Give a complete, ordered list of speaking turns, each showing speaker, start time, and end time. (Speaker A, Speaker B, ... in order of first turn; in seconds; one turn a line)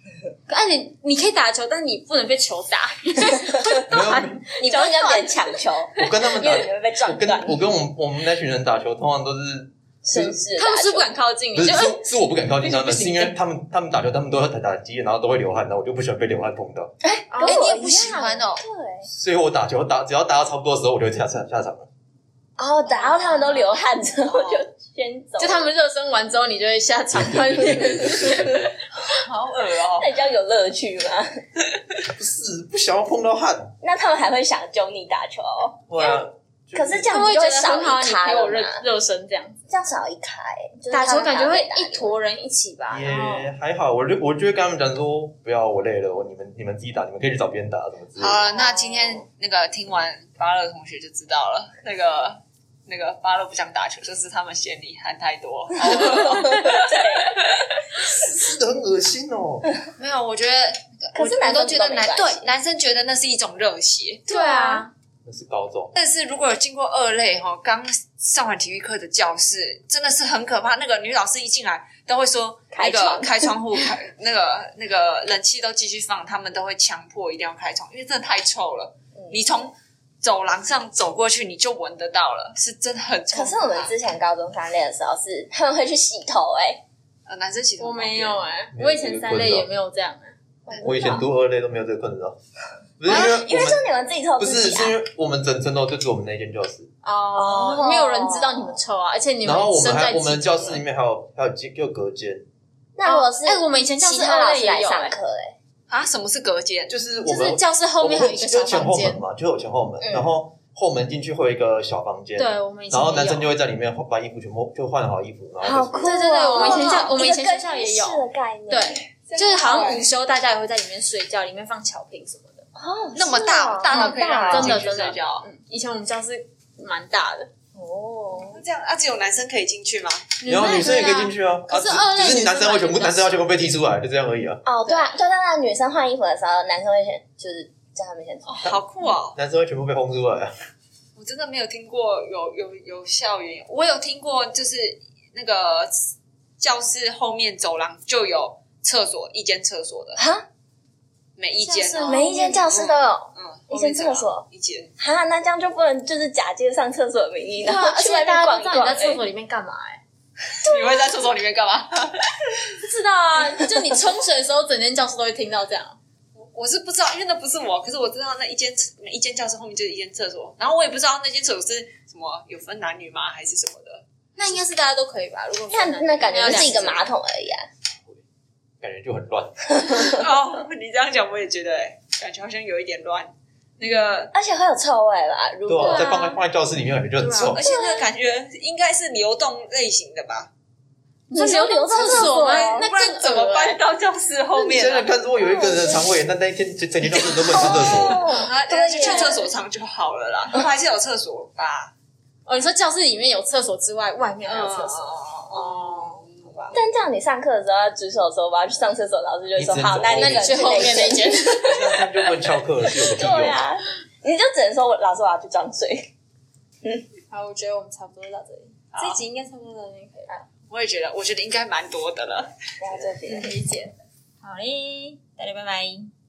Speaker A: 0.5-5.5
Speaker B: 3.9-4.5
Speaker C: 4.6-7.6
Speaker B: 6.0-10.4
Speaker C: 10.0-11.1
Speaker A: 10.6-13.4
Speaker B: 11.6-16.9
Speaker C: 17.0-19.1
Speaker A: 17.3-18.2
Speaker D: 17.4-18.6
Speaker B: 19.1-21.9
Speaker C: 22.6-25.7
Speaker D: 22.9-24.6
Speaker A: 25.4-28.7
Speaker B: 27.1-28.7
Speaker D: 29.1-30.1
Speaker C: 30.0-31.3
Speaker B: 32.1-33.8
Speaker C: 33.8-35.8
Speaker B: 35.9-37.2
Speaker C: 36.7-38.9
Speaker A: 37.1-39.6
Speaker C: 39.7-42.1
Speaker A: 40.9-43.5
Speaker B: 42.9-48.5
Speaker D: 48.2-57.8
Speaker C: 48.5-49.2
Speaker C: 55.9-57.4
Speaker B: 58.1-59.7
Speaker D: 60.0-64.8
Speaker C: 61.1-62.5
Speaker A: 64.3-64.9
Speaker C: 64.3-64.8
Speaker B: 65.2-65.9
Speaker D: 65.9-83.9
Speaker C: 72.7-73.5
Speaker C: 83.3-86.8
Speaker D: 87.3-88.4
Speaker A: 87.8-90.3
Speaker B: 88.7-89.7
Speaker C: 90.7-91.3
Speaker B: 90.8-92.4
Speaker B: 93.0-93.9
Speaker C: 93.1-95.0
Speaker B: 94.4-96.9
Speaker A: 97.0-100.8
Speaker C: 97.4-98.8
Speaker B: 99.4-102.5
Speaker C: 103.0-105.5
Speaker A: 103.0-105.1
Speaker D: 105.9-107.0
Speaker B: 106.9-116.2
Speaker A: 107.2-109.2
Speaker C: 110.0-110.3
Speaker A: 112.4-113.5
Speaker C: 115.6-119.0
Speaker A: 116.0-122.7
Speaker D: 116.5-117.2
Speaker D: 119.3-120.1
Speaker C: 122.8-124.8
Speaker D: 123.2-125.5
Speaker A: 123.9-127.5
Speaker C: 127.8-128.6
Speaker D: 128.5-130.3
Speaker A: 130.4-133.4
Speaker B: 130.5-134.6
Speaker C: 134.7-138.7
Speaker D: 134.8-135.2
Speaker D: 138.5-139.4
Speaker B: 139.3-140.5
Speaker D: 141.2-150.2
Speaker C: 150.2-150.5
Speaker D: 151.4-154.9
Speaker A: 151.6-152.7
Speaker C: 152.1-154.5
Speaker C: 155.0-159.2
Speaker A: 157.6-160.0
Speaker D: 160.6-162.7
Speaker C: 160.7-161.0
Speaker A: 162.8-166.0
Speaker D: 166.4-174.0
Speaker A: 174.4-177.1
Speaker C: 175.7-177.7
Speaker B: 178.8-179.8
Speaker D: 179.8-184.3
Speaker C: 184.3-186.3
Speaker B: 185.7-187.6
Speaker A: 185.8-186.4
Speaker A: 187.2-187.6
Speaker D: 187.5-190.5
Speaker A: 191.3-193.8
Speaker C: 191.4-192.9
Speaker D: 191.9-195.1
Speaker B: 194.6-198.3
Speaker C: 195.4-195.9
Speaker D: 197.3-201.9
Speaker C: 197.6-199.5
Speaker A: 199.0-199.4
Speaker A: 202.5-206.2
Speaker D: 204.4-206.8
Speaker C: 206.7-211.7
Speaker B: 209.6-211.0
Speaker A: 210.1-211.8
Speaker B: 211.6-213.7
Speaker C: 212.9-216.1
Speaker A: 217.3-220.5
Speaker D: 218.9-219.2
Speaker D: 220.7-222.5
Speaker C: 222.8-223.9
Speaker A: 223.3-223.9
Speaker A: 224.4-226.1